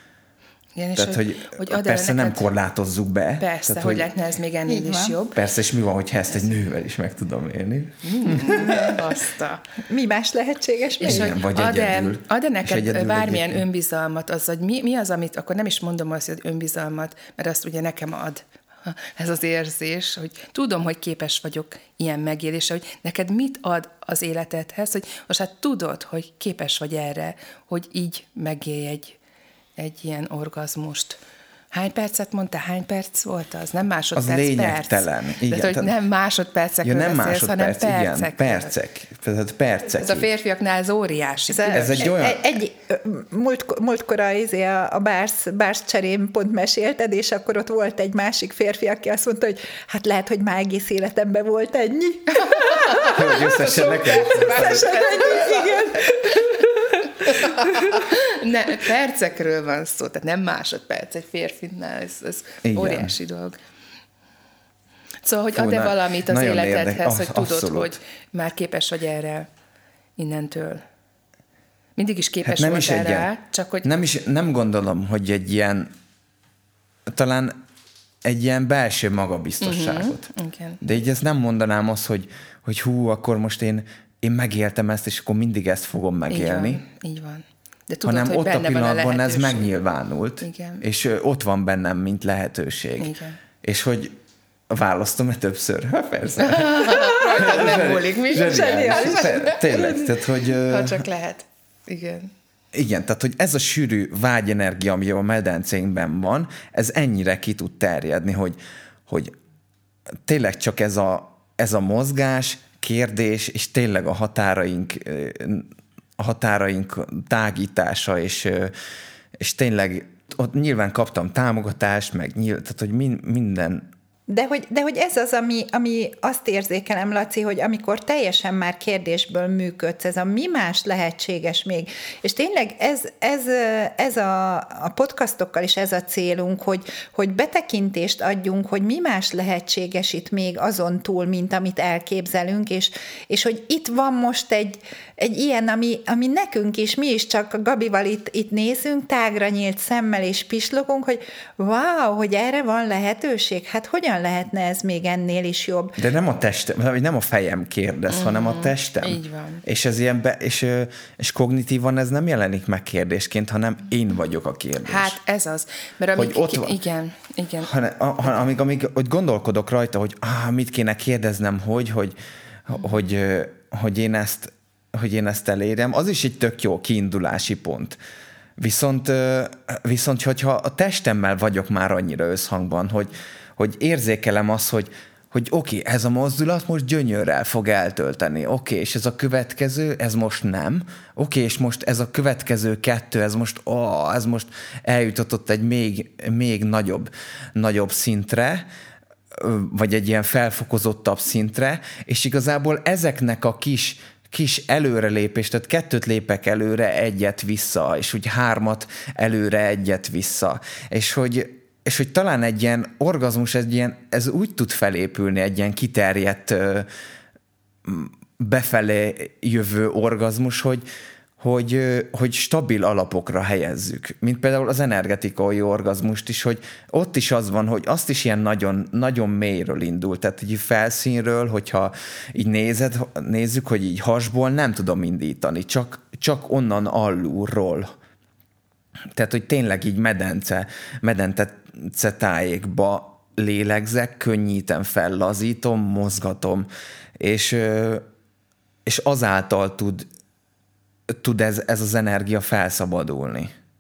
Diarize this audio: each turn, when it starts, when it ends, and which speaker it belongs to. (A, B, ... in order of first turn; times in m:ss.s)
0:00.8-0:02.5 A
0:01.0-0:04.1 B
0:03.4-0:05.4 A
0:04.7-0:05.2 C
0:05.3-0:08.9 B
0:08.0-0:09.6 A
0:08.5-0:09.0 C
0:09.8-0:11.3 C
0:11.0-0:29.2 A
0:11.0-0:13.6 B
0:29.8-0:31.2 A
0:31.7-0:38.7 A
0:34.2-0:35.9 B
0:36.8-0:40.3 B
0:40.0-0:42.1 A
0:41.5-0:53.3 C
0:41.7-0:42.4 B
0:52.7-0:56.5 A
0:53.0-0:55.0 B
0:54.2-0:57.5 C
0:57.2-1:03.6 A
1:02.6-1:03.2 B
1:05.2-1:09.5 A
1:05.6-1:08.0 B
1:10.2-1:10.8 A
1:12.0-1:13.9 A
1:12.4-1:13.3 B
1:13.8-1:15.9 B
1:17.1-1:17.6 B
1:18.2-1:20.3 B
1:19.6-1:20.8 A
1:20.8-1:26.8 B
1:26.3-1:29.7 A
1:28.0-1:34.2 B
1:30.4-1:30.8 A
1:33.0-1:33.4 A
1:34.7-1:41.1 B
1:36.4-1:39.9 A
1:37.0-1:37.5 C
1:38.3-1:40.1 C
1:40.7-1:42.3 A
1:42.7-1:49.3 B
1:50.3-1:58.7 B
1:59.4-2:03.9 B
2:04.3-2:36.0 C
2:36.0-2:45.2 B
2:38.1-2:39.6 A
2:44.8-2:47.7 A
2:46.2-2:46.8 B
2:47.6-2:52.2 B
2:52.7-2:58.0 B
2:58.6-3:18.7 B
3:19.3-3:36.9 B
3:37.8-3:40.8 B
3:41.4-3:57.9 B
3:59.2-4:06.7 B
4:07.2-4:08.0 B
4:08.9-4:10.1 B
4:11.1-4:13.5 B